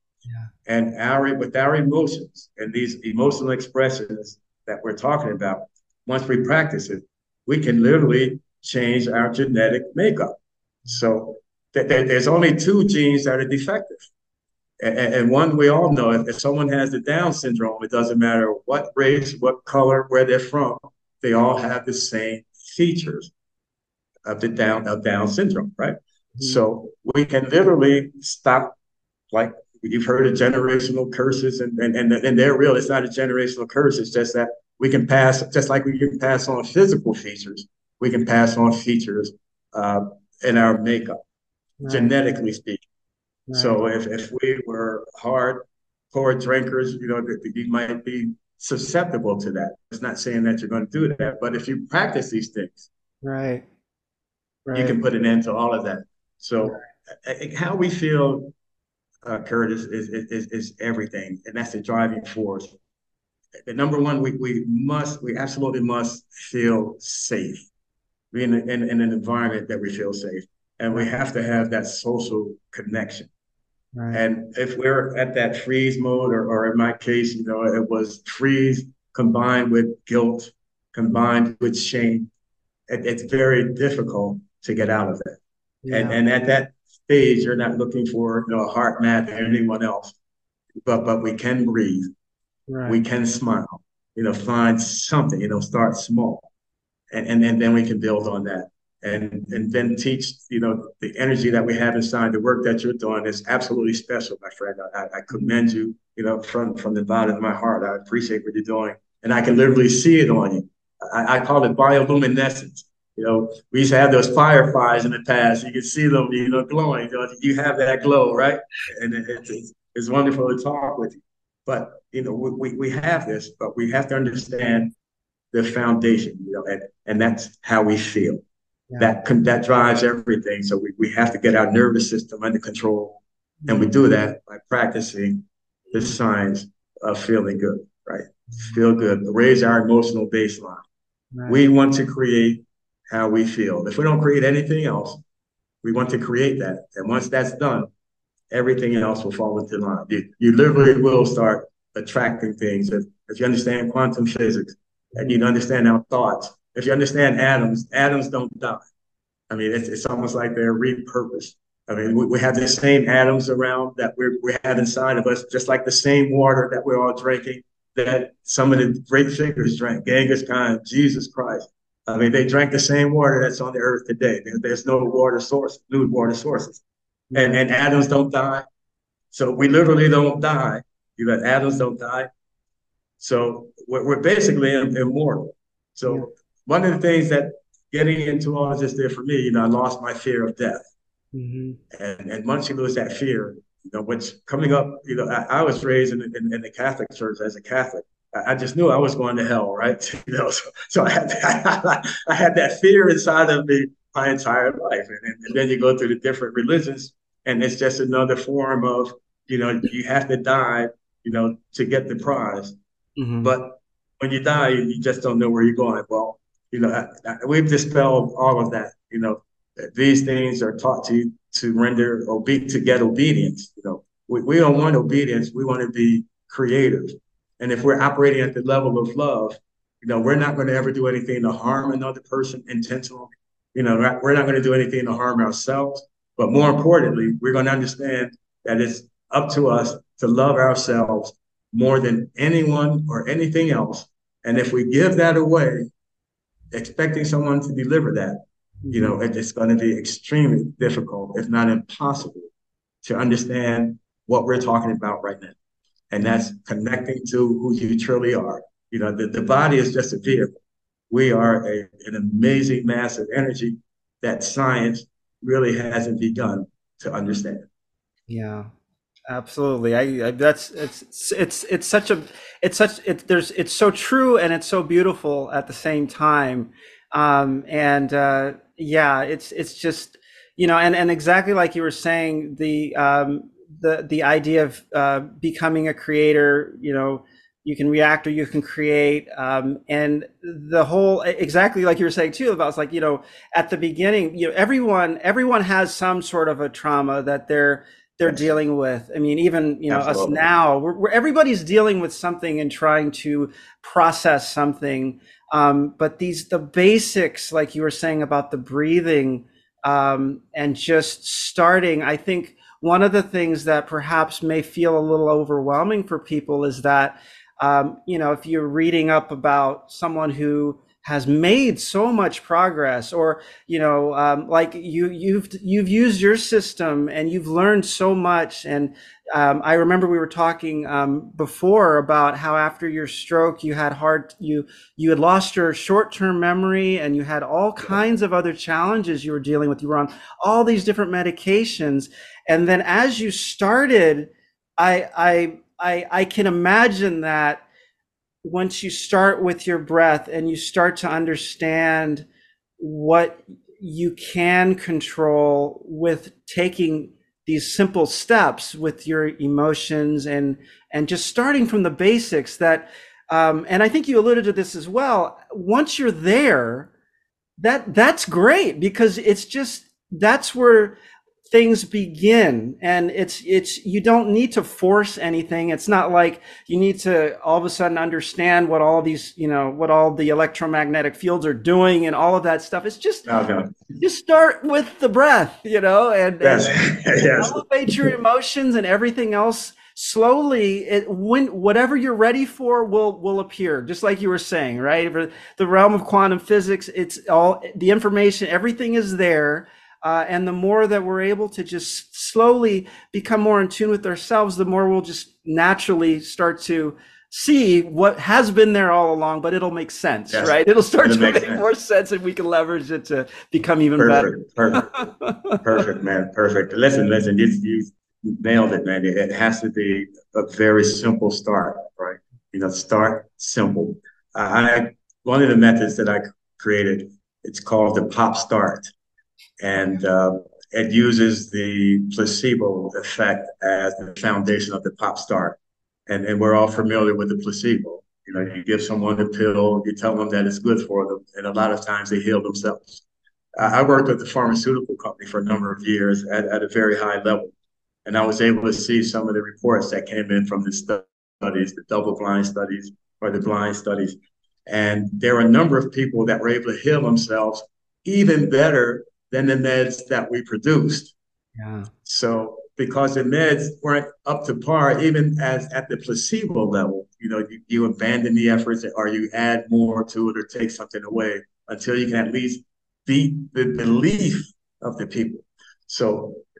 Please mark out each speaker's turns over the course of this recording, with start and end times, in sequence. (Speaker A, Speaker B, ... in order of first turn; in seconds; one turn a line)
Speaker A: 0.7-14.1
Speaker A: 14.8-23.3
Speaker A: 24.2-28.7
Speaker A: 29.3-41.2
Speaker B: 41.8-42.1
Speaker A: 41.9-42.8
Speaker B: 43.5-43.8
Speaker A: 43.5-52.9
Speaker B: 53.2-53.6
Speaker B: 54.6-55.0
Speaker A: 54.7-58.5
Speaker A: 59.2-62.8
Speaker A: 63.6-67.7
Speaker A: 68.3-73.3
Speaker B: 73.9-74.2
Speaker A: 74.1-82.3
Speaker A: 82.9-90.1
Speaker B: 85.8-86.2
Speaker A: 90.8-92.1
Speaker B: 92.7-93.0
Speaker A: 92.9-96.5
Speaker A: 97.1-124.9
Speaker A: 125.5-128.4
Speaker A: 129.0-140.8
Speaker B: 133.6-133.9
Speaker B: 141.3-141.6
Speaker A: 141.5-145.2
Speaker A: 145.8-147.9
Speaker A: 148.5-158.8
Speaker A: 159.5-176.8
Speaker B: 177.3-177.6
Speaker A: 177.3-178.7
Speaker A: 179.3-182.3
Speaker A: 183.2-190.8
Speaker B: 191.3-191.8
Speaker A: 191.9-212.8
Speaker B: 213.2-213.5
Speaker A: 213.4-245.9
Speaker A: 246.7-248.4
Speaker B: 248.8-249.2
Speaker A: 248.9-252.5
Speaker A: 253.0-255.6
Speaker A: 256.1-260.6
Speaker A: 261.1-267.7
Speaker B: 268.3-268.7
Speaker B: 269.3-347.6
Speaker A: 299.9-300.4
Speaker B: 348.4-352.3
Speaker B: 352.8-366.9
Speaker B: 367.6-371.0
Speaker B: 371.5-383.3
Speaker A: 383.2-383.7
Speaker B: 384.0-386.7
Speaker A: 386.4-388.1
Speaker B: 387.4-415.6
Speaker A: 410.3-411.6
Speaker A: 414.0-414.9
Speaker A: 415.6-428.9
Speaker A: 429.6-435.6
Speaker A: 436.1-443.0
Speaker A: 443.6-447.5
Speaker A: 448.1-454.2
Speaker A: 454.7-461.1
Speaker B: 461.6-461.9
Speaker A: 462.0-476.4